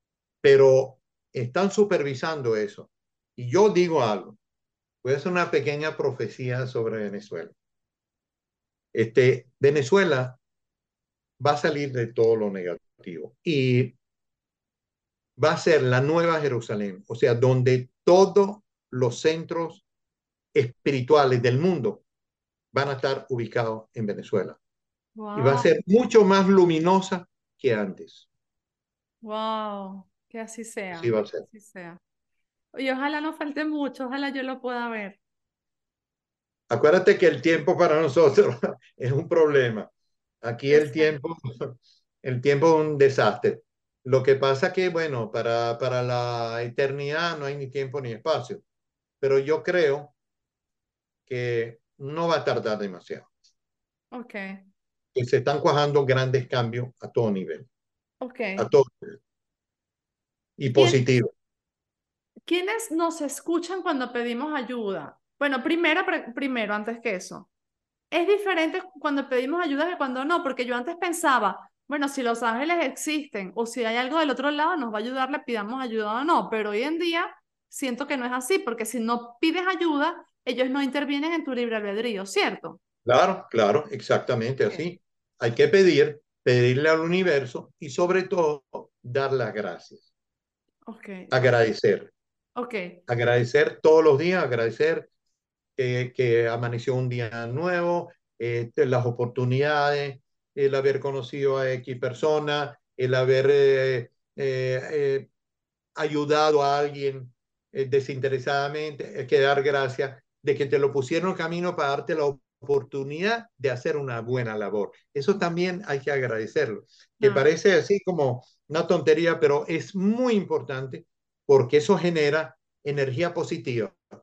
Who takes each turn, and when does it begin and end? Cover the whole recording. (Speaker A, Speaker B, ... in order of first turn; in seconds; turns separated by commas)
Speaker A: 0.4-4.4, Speaker A: 5.0-7.5, Speaker A: 8.9-10.4, Speaker A: 11.4-13.9, Speaker A: 15.4-19.8, Speaker A: 20.5-22.0, Speaker A: 22.7-24.6, Speaker B: 25.1-25.7, Speaker A: 25.3-28.2, Speaker B: 29.2-32.0, Speaker A: 30.9-31.4, Speaker B: 32.7-35.2, Speaker A: 36.7-39.9, Speaker A: 40.4-48.6, Speaker B: 40.7-41.2, Speaker A: 49.2-50.1, Speaker A: 51.3-53.3, Speaker B: 54.1-54.6, Speaker A: 55.1-57.7, Speaker B: 58.2-58.7, Speaker A: 58.6-59.2, Speaker A: 60.6-61.3, Speaker B: 60.7-61.0, Speaker B: 62.4-67.5, Speaker B: 68.1-82.8, Speaker A: 83.0-90.0, Speaker B: 90.8-91.3, Speaker A: 91.3-92.1, Speaker B: 92.5-93.0, Speaker A: 93.1-95.1, Speaker A: 95.8-105.3, Speaker A: 106.0-124.0, Speaker B: 117.2-117.5